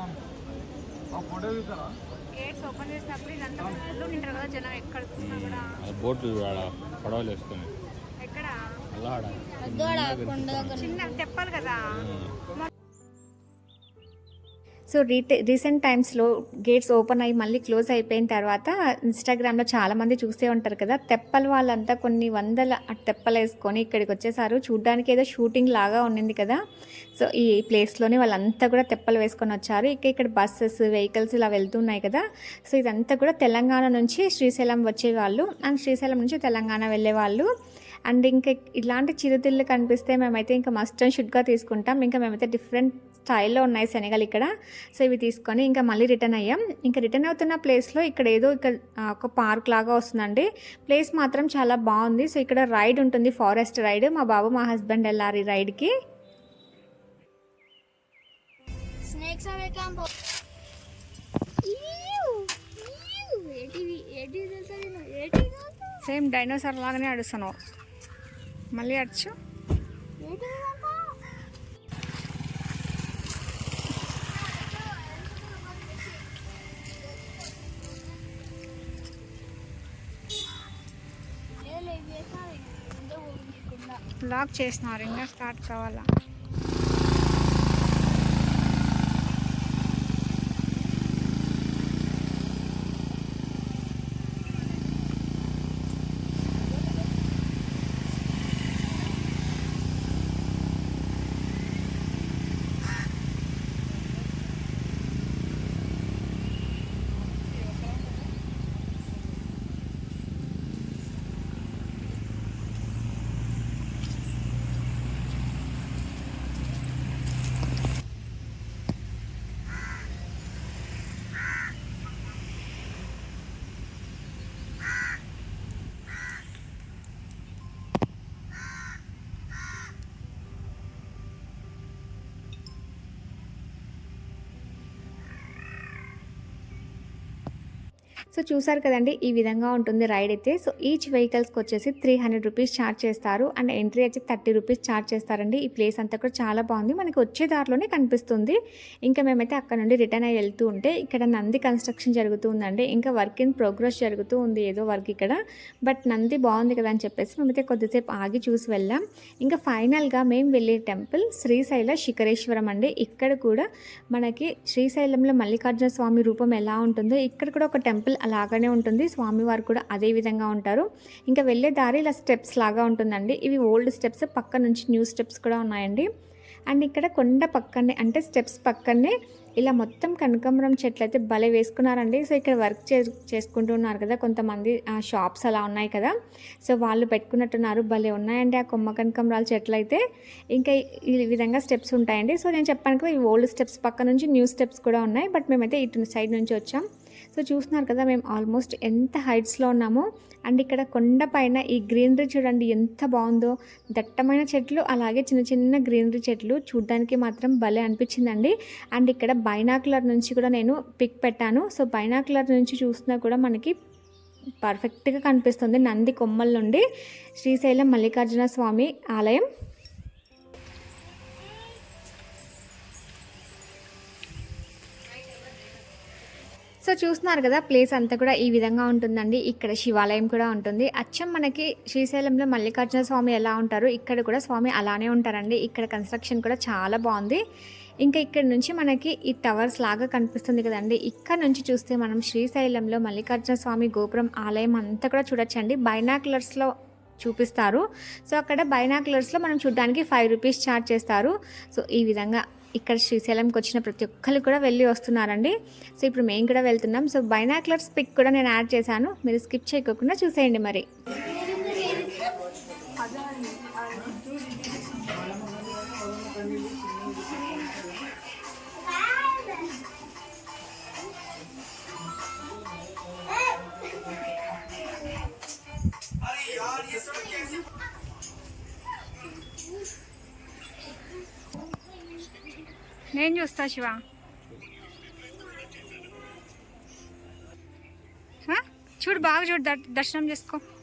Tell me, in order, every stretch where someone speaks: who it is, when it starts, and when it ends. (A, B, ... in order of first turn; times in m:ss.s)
0:02.3-0:05.5 A
0:05.2-0:07.7 B
0:08.2-0:08.5 A
0:08.9-0:11.0 B
0:09.6-0:11.2 C
0:11.2-0:11.8 A
0:11.9-0:12.3 B
0:14.9-0:26.6 D
0:27.2-0:37.5 D
0:38.1-0:55.9 D
0:59.0-1:00.1 C
1:01.6-1:06.0 C
1:06.0-1:07.6 D
1:08.8-1:09.3 D
1:10.2-1:11.1 C
1:14.2-1:18.3 C
1:21.6-1:24.0 C
1:24.3-1:26.0 A
1:24.6-1:26.0 D
2:18.3-2:56.1 D
2:56.7-3:06.1 D
3:06.6-3:10.0 D
3:10.5-3:33.7 D
3:34.6-3:36.8 D
3:37.4-3:39.5 D
3:46.8-3:57.4 D
3:58.0-4:20.8 D
4:21.6-4:22.0 C
4:29.0-4:29.7 C
4:43.2-4:43.8 D
4:43.4-4:43.9 A
4:49.2-4:49.8 D
4:49.4-4:50.6 A